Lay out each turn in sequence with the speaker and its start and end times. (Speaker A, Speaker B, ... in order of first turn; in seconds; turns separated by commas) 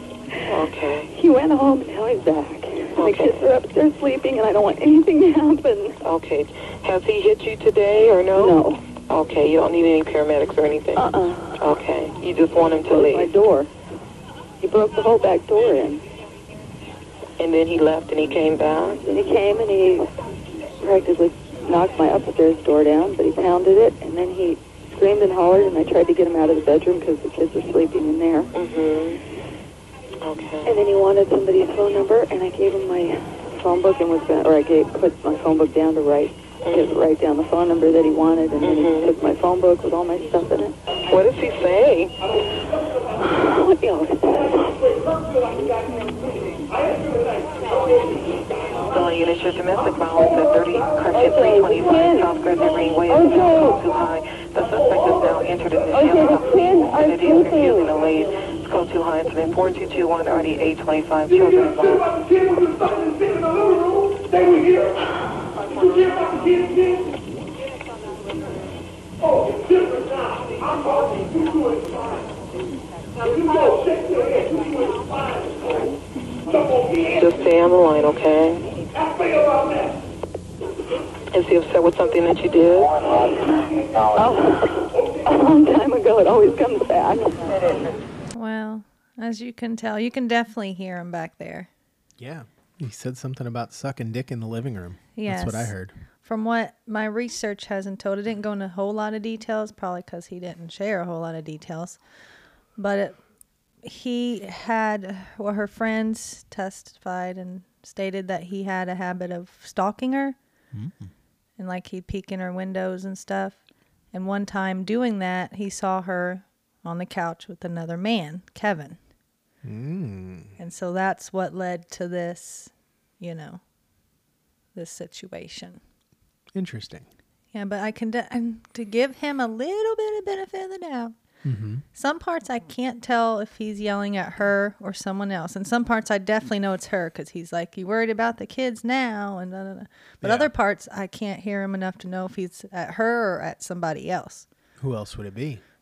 Speaker A: 0.5-1.1, Speaker B: 1.1-6.0, Speaker A: 3.0-3.4, Speaker A: 6.0-13.3, Speaker B: 8.3-8.8, Speaker B: 10.9-11.6, Speaker B: 12.6-13.7, Speaker B: 14.6-16.0, Speaker A: 17.4-19.0, Speaker B: 19.1-20.1, Speaker B: 20.8-28.5, Speaker A: 28.5-29.2, Speaker A: 30.2-30.7, Speaker B: 30.6-40.7, Speaker A: 38.6-39.1, Speaker A: 41.1-42.1, Speaker B: 43.2-44.9, Speaker A: 48.9-62.2, Speaker A: 77.1-78.6, Speaker A: 81.3-83.0, Speaker B: 84.1-87.6, Speaker C: 88.3-91.7, Speaker D: 92.2-95.9, Speaker C: 95.1-102.0, Speaker C: 102.8-103.2, Speaker C: 103.8-110.3, Speaker D: 110.7-111.1, Speaker C: 111.6-113.6, Speaker C: 114.1-119.0, Speaker D: 119.6-120.6, Speaker C: 120.6-123.6, Speaker C: 124.7-125.8, Speaker D: 126.5-127.1, Speaker C: 127.5-131.1, Speaker D: 131.4-131.8, Speaker C: 131.9-144.4, Speaker D: 140.2-140.5, Speaker D: 144.8-145.6